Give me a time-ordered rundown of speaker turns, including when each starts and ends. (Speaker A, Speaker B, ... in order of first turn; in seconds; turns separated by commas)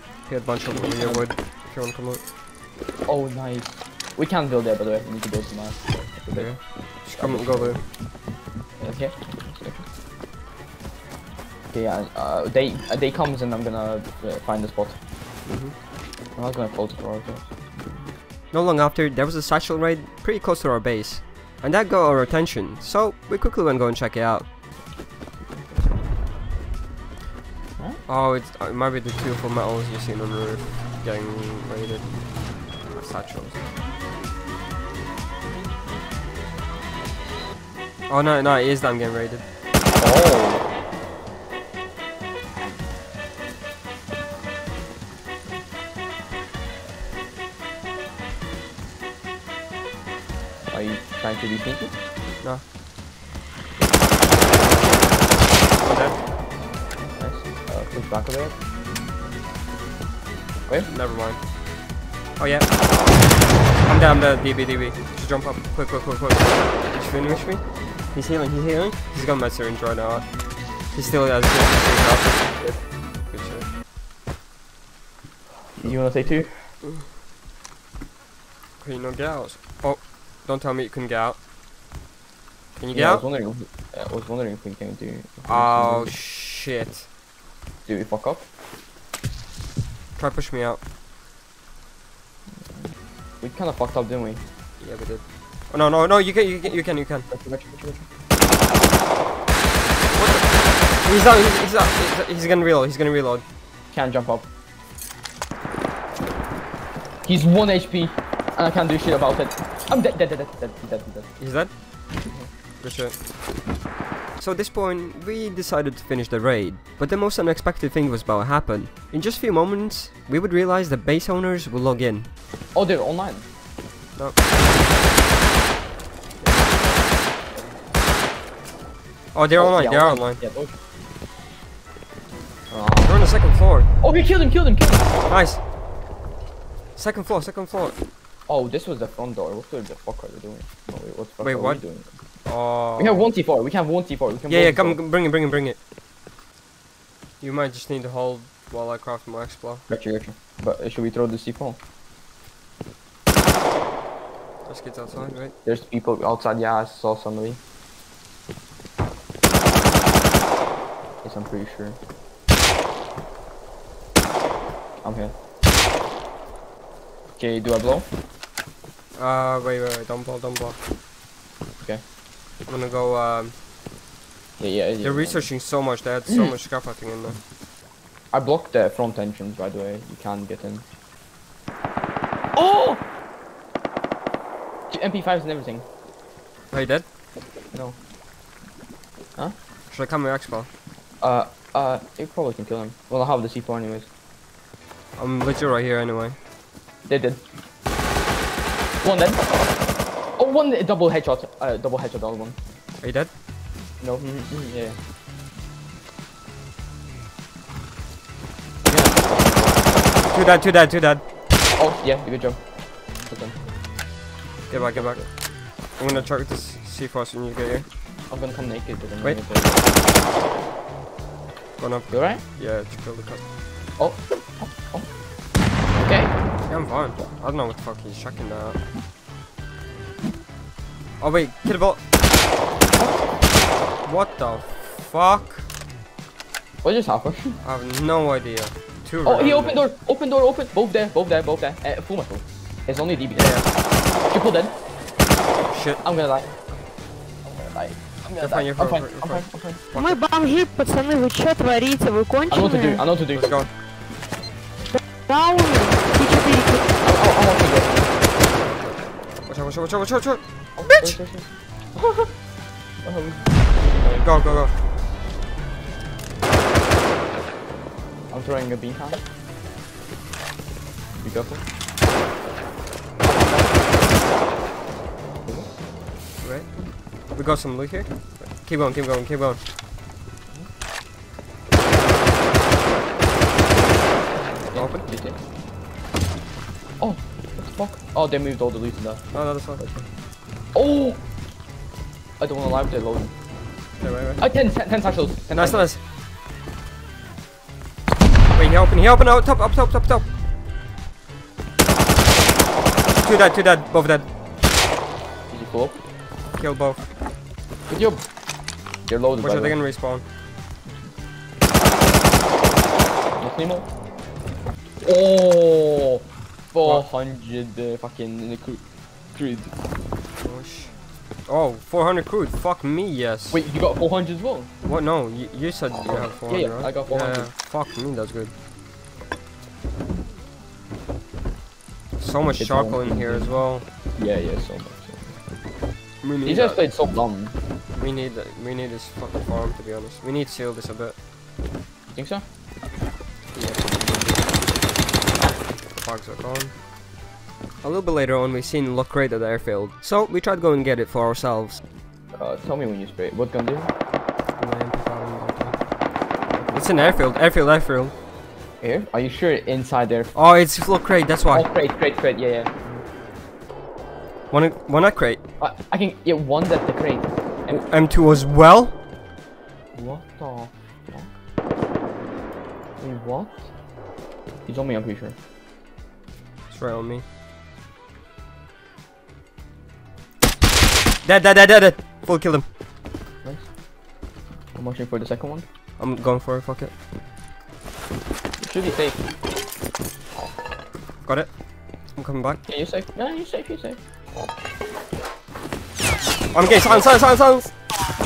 Speaker A: 0.3-2.2, Speaker B: 0.7-1.3, Speaker B: 3.1-8.0, Speaker A: 6.3-7.9, Speaker B: 8.8-9.9, Speaker B: 11.7-15.0, Speaker A: 15.4-15.8, Speaker B: 16.4-18.1, Speaker A: 18.5-24.5, Speaker A: 28.1-33.6, Speaker A: 38.1-39.5, Speaker B: 40.0-40.7, Speaker B: 50.7-51.9, Speaker A: 55.8-56.2, Speaker B: 57.2-58.6, Speaker A: 60.9-61.4, Speaker A: 62.4-62.9, Speaker A: 63.8-72.7, Speaker B: 67.2-68.0, Speaker A: 73.3-73.7, Speaker B: 75.7-76.7, Speaker A: 76.8-77.1, Speaker A: 78.8-81.4, Speaker A: 82.8-83.2, Speaker B: 82.9-86.1, Speaker A: 85.5-87.1, Speaker B: 87.9-88.5, Speaker A: 90.2-90.8, Speaker B: 92.6-92.9, Speaker B: 93.4-94.4, Speaker A: 94.8-97.3, Speaker B: 97.3-98.1, Speaker A: 100.1-103.4, Speaker B: 103.9-104.5, Speaker B: 107.2-111.4, Speaker A: 111.4-111.7, Speaker A: 112.8-113.2, Speaker A: 114.4-122.3, Speaker B: 122.7-123.5, Speaker B: 126.4-127.7, Speaker A: 129.3-130.4, Speaker B: 129.6-130.8, Speaker B: 132.7-133.2, Speaker A: 133.0-133.9, Speaker B: 134.0-135.1, Speaker A: 135.3-135.6, Speaker A: 137.0-138.0, Speaker B: 138.5-142.2, Speaker A: 141.4-141.8, Speaker A: 142.4-143.3, Speaker B: 143.0-145.0, Speaker A: 144.5-145.8, Speaker A: 147.4-149.9, Speaker B: 149.9-151.8, Speaker A: 154.7-155.5, Speaker B: 155.6-157.6, Speaker B: 161.2-162.0, Speaker B: 165.0-165.3, Speaker B: 167.4-168.1, Speaker A: 169.2-170.8, Speaker A: 172.7-173.6, Speaker B: 174.6-175.5, Speaker A: 175.0-177.4, Speaker B: 176.3-176.5, Speaker B: 178.3-180.8, Speaker B: 182.6-183.0, Speaker B: 184.9-185.9, Speaker A: 186.7-187.1, Speaker A: 189.9-190.7, Speaker B: 191.2-194.1, Speaker A: 195.2-196.4, Speaker B: 197.1-197.4, Speaker B: 199.0-199.5, Speaker B: 200.4-202.6, Speaker A: 203.0-203.3, Speaker B: 204.0-205.0, Speaker B: 208.9-210.1, Speaker A: 210.3-211.2, Speaker B: 211.7-213.6, Speaker A: 214.7-217.9, Speaker B: 214.8-215.3, Speaker B: 218.3-220.0, Speaker A: 221.8-223.5, Speaker B: 222.1-222.4, Speaker B: 224.0-225.2, Speaker B: 225.9-226.3, Speaker A: 226.7-228.8, Speaker A: 231.2-232.0, Speaker A: 234.0-235.7, Speaker B: 236.8-237.6, Speaker A: 237.6-239.9, Speaker B: 239.2-243.6, Speaker A: 243.3-243.7, Speaker B: 244.3-244.8, Speaker A: 245.7-246.0, Speaker B: 246.0-246.6, Speaker B: 247.4-249.8, Speaker A: 248.4-250.2, Speaker C: 249.9-253.1, Speaker B: 252.5-253.6, Speaker A: 253.3-253.7, Speaker C: 255.1-257.1, Speaker B: 257.0-258.2, Speaker A: 258.5-261.1, Speaker B: 260.8-262.3, Speaker B: 263.0-264.7, Speaker A: 264.2-264.7, Speaker B: 268.3-269.2, Speaker B: 271.1-271.6, Speaker B: 275.4-275.7, Speaker A: 276.4-279.6, Speaker B: 284.4-285.4, Speaker A: 284.7-285.1, Speaker B: 287.0-290.1, Speaker A: 289.3-289.8, Speaker B: 290.7-291.2, Speaker B: 292.4-293.3, Speaker A: 294.0-294.4, Speaker B: 294.4-295.9, Speaker A: 295.5-296.0, Speaker A: 298.5-300.3, Speaker A: 303.1-304.3, Speaker B: 305.5-306.0, Speaker A: 306.5-307.1, Speaker B: 307.9-308.3, Speaker B: 309.0-309.8, Speaker A: 309.4-310.2, Speaker B: 313.3-313.9, Speaker B: 315.0-319.7, Speaker A: 320.4-323.6, Speaker B: 323.5-324.7, Speaker A: 324.9-328.6, Speaker B: 325.9-327.5, Speaker A: 332.2-333.9, Speaker B: 332.6-335.4, Speaker A: 336.2-336.8, Speaker B: 336.4-337.6, Speaker A: 337.9-341.2, Speaker B: 342.1-342.4, Speaker A: 343.5-344.4, Speaker A: 346.0-346.8, Speaker A: 347.8-351.8, Speaker B: 352.3-353.9, Speaker A: 354.6-355.9, Speaker B: 356.5-356.8, Speaker A: 356.7-358.1, Speaker B: 358.8-360.3, Speaker A: 360.3-361.7, Speaker B: 361.5-363.0, Speaker A: 364.5-365.4, Speaker B: 365.6-367.9, Speaker A: 367.7-369.0, Speaker B: 369.9-371.3, Speaker B: 373.0-373.7, Speaker B: 374.6-375.4, Speaker A: 376.7-377.2, Speaker A: 381.2-382.7, Speaker B: 383.4-383.7, Speaker B: 384.7-385.7, Speaker A: 386.0-386.9, Speaker B: 388.6-389.2, Speaker A: 391.2-392.6, Speaker B: 392.7-394.0, Speaker A: 396.5-398.0